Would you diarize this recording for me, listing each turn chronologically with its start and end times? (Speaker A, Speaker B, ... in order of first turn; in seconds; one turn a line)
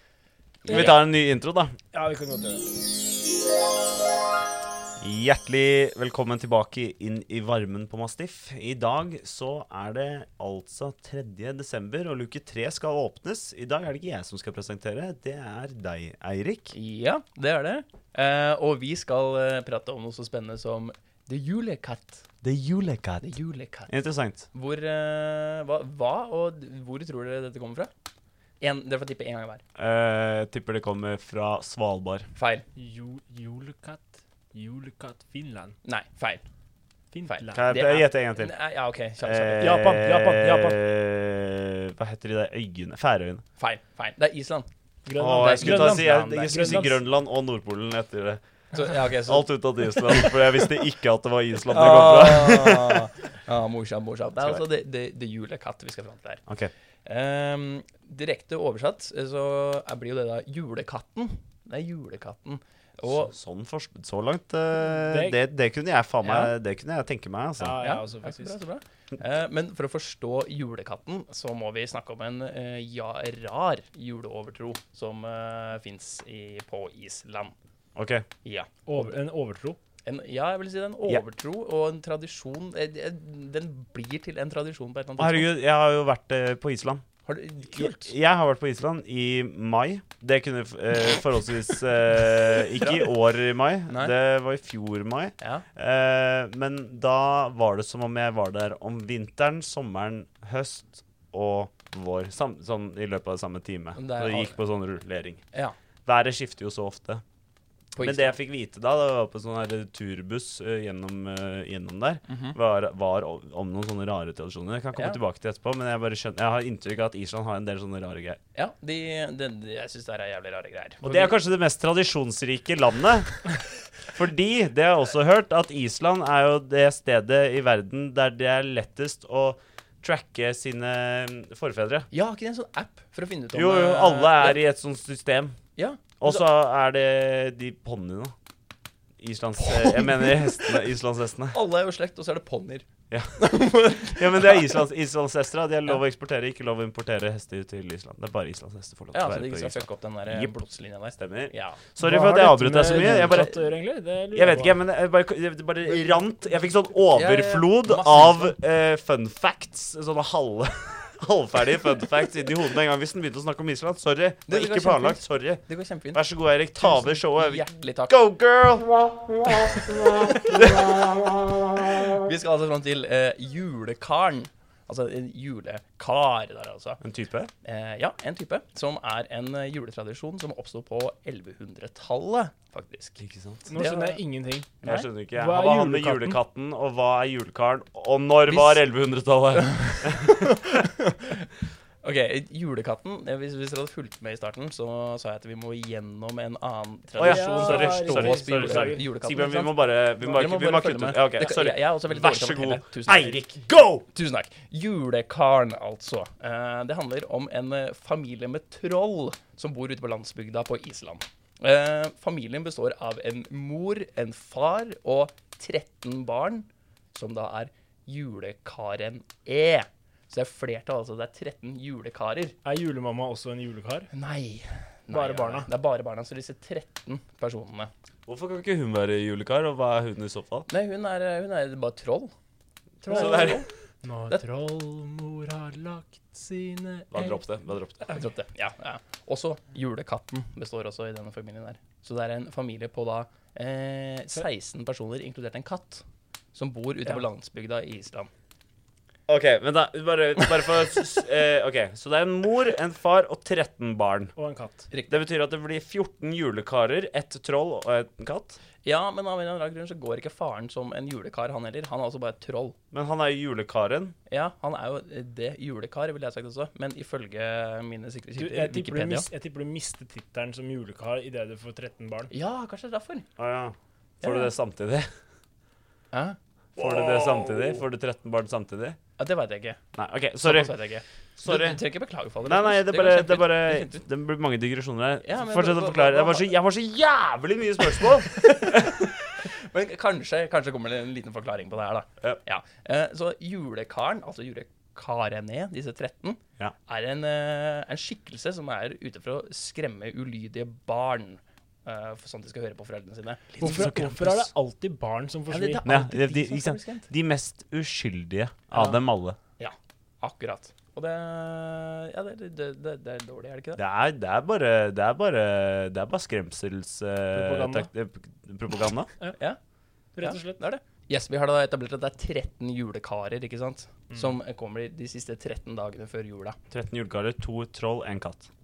Speaker A: 0.6-1.0
Speaker B: 0.6-1.7
Speaker C: 0.7-1.0
Speaker C: 1.9-2.7
Speaker B: 5.0-16.7
Speaker A: 16.7-22.3
Speaker B: 22.4-23.3
Speaker A: 23.2-23.9
Speaker B: 23.9-24.4
Speaker A: 24.5-27.9
Speaker A: 28.6-29.6
Speaker B: 29.8-32.3
Speaker A: 32.3-32.6
Speaker C: 32.7-35.7
Speaker A: 35.8-36.4
Speaker C: 37.1-37.8
Speaker A: 37.3-39.8
Speaker B: 37.5-38.5
Speaker B: 39.2-43.4
Speaker C: 39.6-40.8
Speaker A: 43.6-46.8
Speaker C: 45.0-47.0
Speaker B: 45.1-48.4
Speaker A: 48.7-50.7
Speaker B: 48.9-53.1
Speaker A: 51.7-56.4
Speaker B: 54.4-54.6
Speaker B: 56.5-56.7
Speaker A: 57.0-63.3
Speaker B: 63.0-67.8
Speaker C: 64.9-65.4
Speaker A: 66.2-66.5
Speaker C: 67.6-68.6
Speaker A: 67.8-77.5
Speaker B: 78.0-78.2
Speaker A: 78.4-79.1
Speaker C: 78.8-79.8
Speaker A: 80.0-85.5
Speaker B: 85.2-87.0
Speaker A: 87.2-88.1
Speaker B: 87.7-105.4
Speaker A: 92.7-93.2
Speaker A: 93.9-94.1
Speaker A: 95.4-95.6
Speaker A: 103.9-104.6
Speaker B: 106.0-107.2
Speaker A: 108.0-108.4
Speaker B: 108.0-118.4
Speaker A: 112.3-112.5
Speaker A: 114.9-115.2
Speaker A: 118.5-121.4
Speaker B: 121.0-123.4
Speaker B: 124.1-132.1
Speaker A: 132.1-134.6
Speaker B: 133.5-135.5
Speaker A: 135.8-136.4
Speaker B: 136.2-138.3
Speaker B: 139.2-141.6
Speaker A: 139.6-140.9
Speaker A: 141.5-144.7
Speaker B: 143.1-150.6
Speaker A: 149.1-151.8
Speaker B: 151.2-153.6
Speaker C: 152.0-154.8
Speaker A: 152.8-153.5
Speaker B: 154.3-170.9
Speaker A: 156.9-158.6
Speaker A: 164.5-168.1
Speaker A: 169.6-170.9
Speaker A: 171.7-177.0
Speaker B: 177.0-177.5
Speaker A: 177.6-183.2
Speaker B: 183.2-183.7
Speaker C: 183.7-184.7
Speaker A: 183.8-184.2
Speaker A: 184.8-185.1
Speaker B: 184.8-190.6
Speaker C: 185.3-186.4
Speaker A: 188.5-188.8
Speaker A: 189.6-191.4
Speaker A: 192.0-203.4
Speaker B: 197.2-204.0
Speaker C: 197.2-199.1
Speaker A: 204.1-222.6
Speaker C: 222.6-224.1
Speaker A: 224.1-227.9
Speaker C: 225.1-225.7
Speaker B: 228.2-230.7
Speaker A: 230.7-232.3
Speaker B: 233.0-233.7
Speaker A: 233.0-233.7
Speaker C: 233.1-237.1
Speaker B: 237.1-238.2
Speaker A: 238.1-248.3
Speaker B: 249.3-254.3
Speaker C: 254.3-254.9
Speaker A: 254.9-255.2
Speaker B: 255.1-258.6
Speaker A: 258.8-262.7
Speaker B: 262.9-264.1
Speaker A: 264.3-269.3
Speaker C: 268.4-272.3
Speaker A: 272.3-273.3
Speaker B: 273.4-275.1
Speaker A: 274.2-274.5
Speaker A: 276.1-276.4
Speaker B: 276.8-279.0
Speaker C: 276.8-277.8
Speaker A: 279.2-279.8
Speaker B: 279.9-280.7
Speaker A: 280.4-284.0
Speaker B: 281.4-281.8
Speaker B: 282.4-289.0
Speaker A: 285.2-286.5
Speaker A: 288.0-303.9
Speaker B: 303.5-304.5
Speaker C: 303.6-305.8
Speaker A: 305.5-307.1
Speaker B: 305.8-309.4
Speaker C: 308.7-309.0
Speaker A: 309.6-313.8
Speaker B: 313.8-319.1
Speaker C: 317.3-317.9
Speaker C: 320.1-320.6
Speaker A: 320.2-326.6
Speaker B: 326.7-328.5